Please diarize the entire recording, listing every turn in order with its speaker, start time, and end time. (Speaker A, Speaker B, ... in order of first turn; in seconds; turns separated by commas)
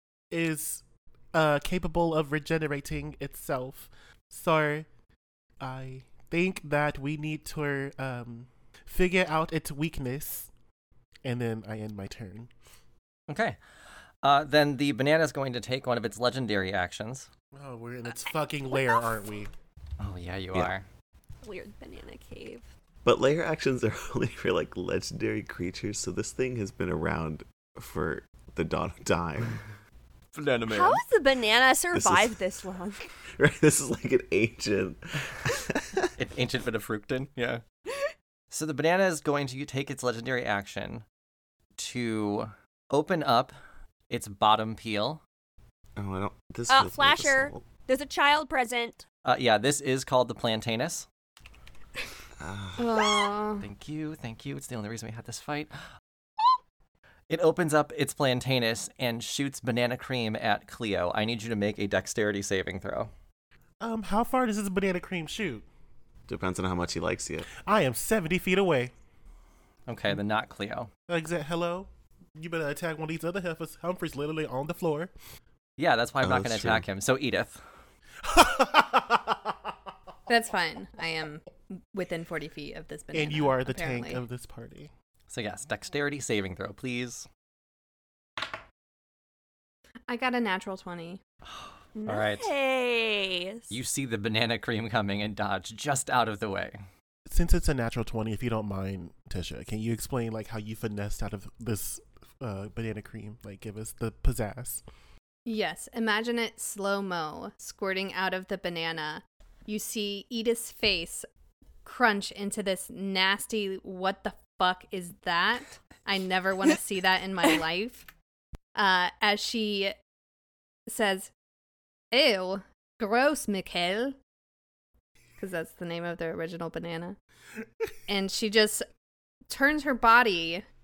Speaker A: 0.3-4.9, Speaker A: 5.6-10.5, Speaker A: 11.2-12.5, Speaker B: 13.3-13.6, Speaker B: 14.2-17.3, Speaker A: 17.5-19.5, Speaker B: 20.0-20.9, Speaker C: 21.4-22.7, Speaker D: 23.0-29.6, Speaker B: 30.3-31.0, Speaker C: 30.7-33.1, Speaker D: 31.9-32.4, Speaker D: 33.4-36.1, Speaker B: 36.2-37.6, Speaker B: 38.5-41.0, Speaker B: 41.8-43.5, Speaker B: 44.1-45.2, Speaker D: 46.0-47.7, Speaker C: 46.7-49.0, Speaker B: 49.2-51.1, Speaker D: 52.4-53.0, Speaker E: 52.8-53.6, Speaker B: 53.6-55.7, Speaker B: 57.3-63.1, Speaker A: 63.8-65.7, Speaker D: 66.3-67.5, Speaker A: 67.6-68.9, Speaker B: 69.9-70.9, Speaker A: 71.1-75.1, Speaker B: 75.8-77.6, Speaker D: 76.2-76.8, Speaker A: 78.2-79.6, Speaker E: 80.3-84.2, Speaker A: 83.1-84.9, Speaker B: 85.3-87.3, Speaker E: 90.1-91.2, Speaker C: 92.0-93.7, Speaker B: 92.1-92.5, Speaker B: 93.7-96.8, Speaker A: 97.3-104.8, Speaker E: 105.5-111.3, Speaker E: 111.8-118.1, Speaker E: 118.8-120.0, Speaker E: 120.9-121.3, Speaker E: 122.1-124.2, Speaker E: 125.4-127.2, Speaker E: 128.1-128.9, Speaker E: 129.5-130.7